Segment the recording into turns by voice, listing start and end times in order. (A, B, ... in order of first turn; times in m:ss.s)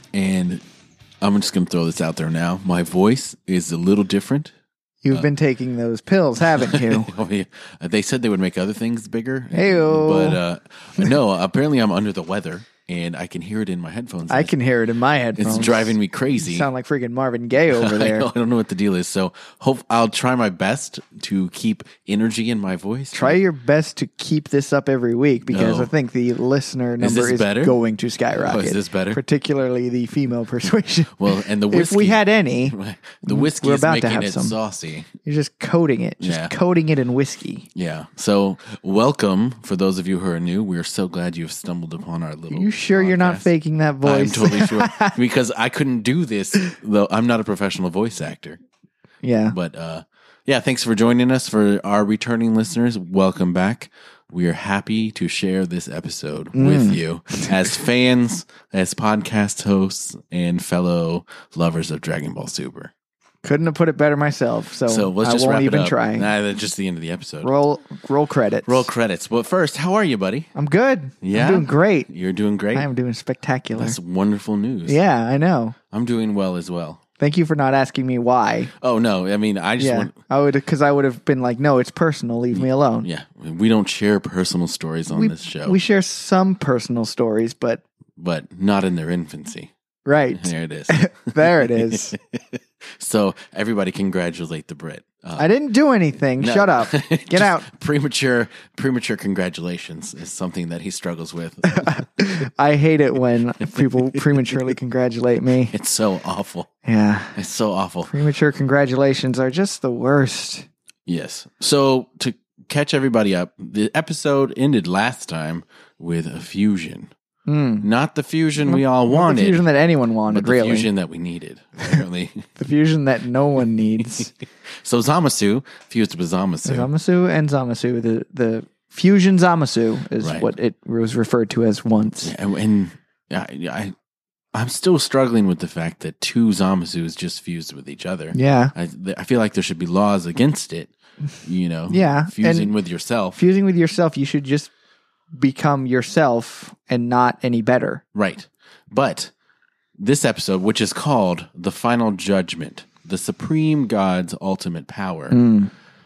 0:00.1-0:00.6 A
0:01.2-0:04.5 A
0:05.0-0:07.1 B
0:06.5-0:14.5 A
0:09.5-0:10.4 B
0:14.3-0:18.3 B
0:15.4-0:16.7 A
0:17.7-0:23.4 A
0:23.1-0:34.6 B
0:25.5-0:25.9 A
0:27.0-0:27.8 A
0:28.3-0:29.2 A
0:31.2-0:35.1 A
0:35.2-0:37.7 B
0:36.2-0:36.5 A
0:37.8-0:43.5 A
0:42.5-0:45.2 B
0:44.0-0:48.6 A
0:49.2-0:49.6 B
0:49.5-1:02.9 A
0:56.6-0:57.7 B
1:03.4-1:06.3 B
1:04.9-1:07.5 A
1:07.4-1:08.9 B
1:08.7-1:10.5 A
1:10.6-1:12.1 B
1:11.2-1:12.9 A
1:12.7-1:14.0 B
1:13.8-1:15.0 A
1:14.9-1:15.8 B
1:15.9-1:17.0 A
1:17.2-1:18.7 B
1:18.8-1:20.2 A
1:19.8-1:23.1 B
1:22.5-1:25.8 A
1:25.1-1:27.8 B
1:28.2-1:29.7 A
1:30.1-1:32.2 B
1:30.4-1:35.5 A
1:35.4-1:37.7 B
1:36.4-1:42.0 A
1:41.7-1:45.7 B
1:43.8-1:44.7 A
1:45.7-1:46.7 A
1:46.8-1:47.4 B
1:47.4-1:48.1 A
1:48.0-1:50.7 B
1:51.1-1:57.1 A
1:57.5-1:57.9 B
1:57.8-1:59.6 A
1:58.6-2:00.9 B
2:00.3-2:02.5 A
2:02.6-2:04.3 B
2:04.7-2:06.9 A
2:06.6-2:12.3 B
2:10.2-2:10.5 A
2:12.2-2:13.9 A
2:14.5-2:20.9 A
2:18.3-2:18.7 B
2:21.4-2:23.4 A
2:21.9-2:22.7 B
2:23.4-2:24.7 B
2:25.3-2:28.0 B
2:28.1-2:29.3 A
2:30.0-2:35.4 A
2:35.3-2:35.7 B